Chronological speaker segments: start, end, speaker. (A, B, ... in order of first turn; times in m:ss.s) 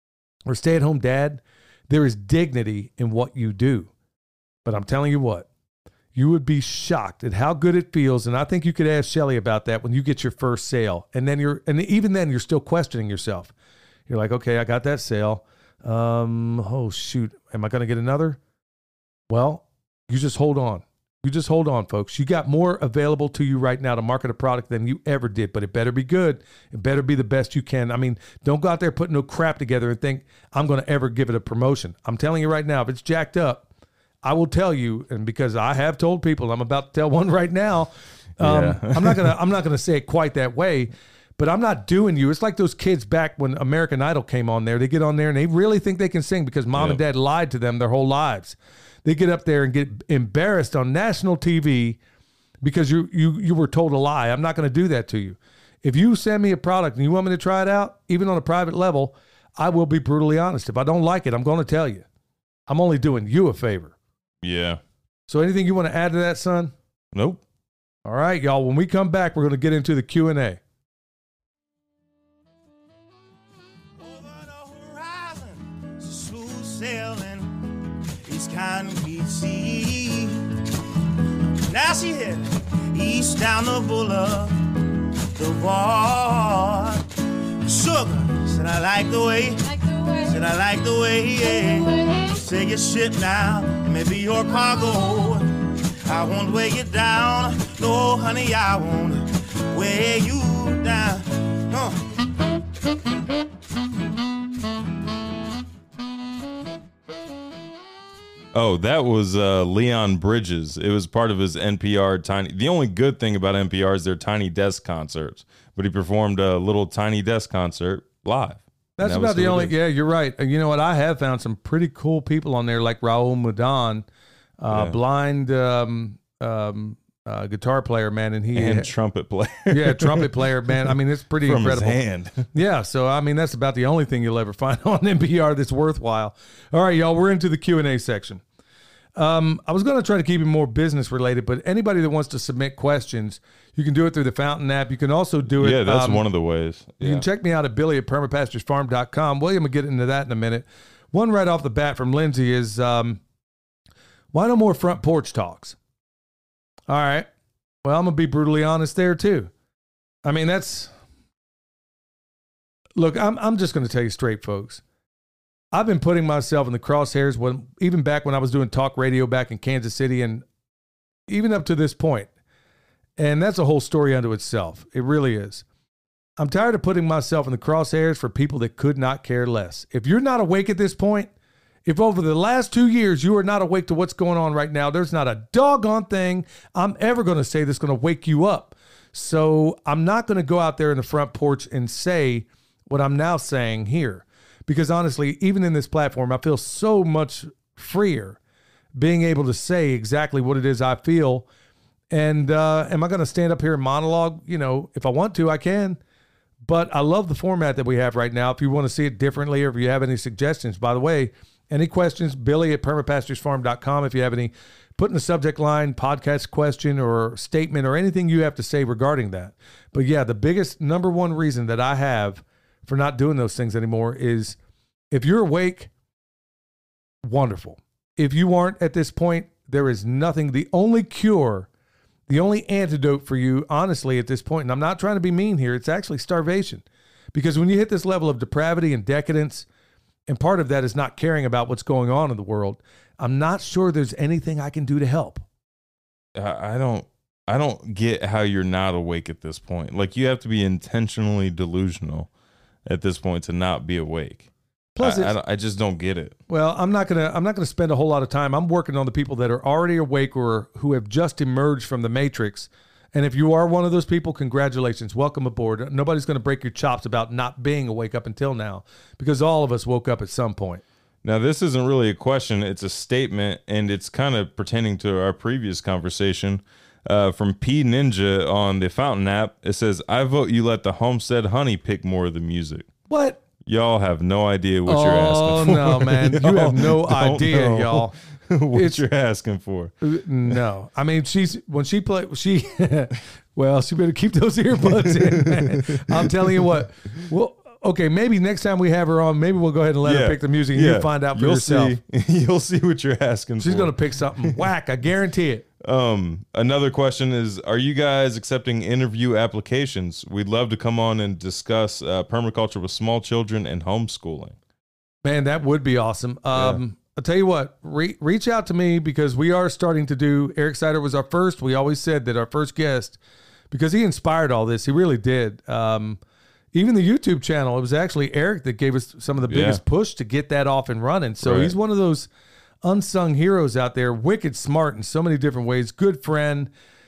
0:00.5-0:03.9 A
0:04.6-0:05.5 A
0:06.1-0:13.5 A
0:14.1-0:18.4 A
0:19.3-0:33.6 A
0:34.2-0:52.0 A
0:38.4-0:39.4 B
0:46.8-0:47.0 B
0:52.6-1:02.1 A
1:02.7-1:04.0 A
1:04.4-1:04.8 B
1:05.3-1:06.7 A
1:07.1-1:07.4 B
1:08.0-1:10.6 A
1:14.0-1:20.6 C
1:21.7-1:42.1 C
1:48.5-1:59.7 B
1:59.0-2:04.1 A
2:04.6-2:08.9 A
2:04.7-2:05.0 B
2:08.5-2:12.5 B
2:09.7-2:12.0 A
2:12.5-2:18.4 A
2:19.2-2:26.2 A
2:25.6-2:27.3 B
2:27.0-2:33.2 A
2:34.3-2:35.8 A
2:36.9-2:37.3 A
2:37.8-2:39.5 A
2:40.2-2:40.9 A
2:43.0-2:44.8 A
2:45.7-2:50.4 A
2:51.3-2:52.3 A
2:53.2-2:55.6 A
2:56.4-3:01.3 A
3:01.8-3:18.4 A
3:19.0-3:21.5 A
3:22.1-3:26.0 A
3:26.6-3:44.6 A
3:45.1-3:45.9 A
3:47.3-3:51.7 A
3:52.3-3:59.7 A
4:00.3-4:05.4 A
4:06.4-4:12.3 B
4:12.9-4:14.5 B
4:15.0-4:15.3 A
4:15.0-4:16.4 B
4:16.5-4:30.8 A
4:31.2-4:42.9 B
4:43.1-4:43.4 A
4:43.6-4:49.9 B
4:44.9-4:48.2 A
4:48.7-4:49.0 A
4:50.0-5:02.0 A
4:54.8-4:56.8 B
5:00.0-5:04.6 B
5:03.6-5:05.7 A
5:05.8-5:14.6 B
5:15.2-5:23.2 A
5:16.5-5:16.8 B
5:23.7-5:26.2 A
5:26.7-5:32.3 A
5:29.5-5:29.8 B
5:31.4-5:31.7 B
5:32.8-5:36.7 A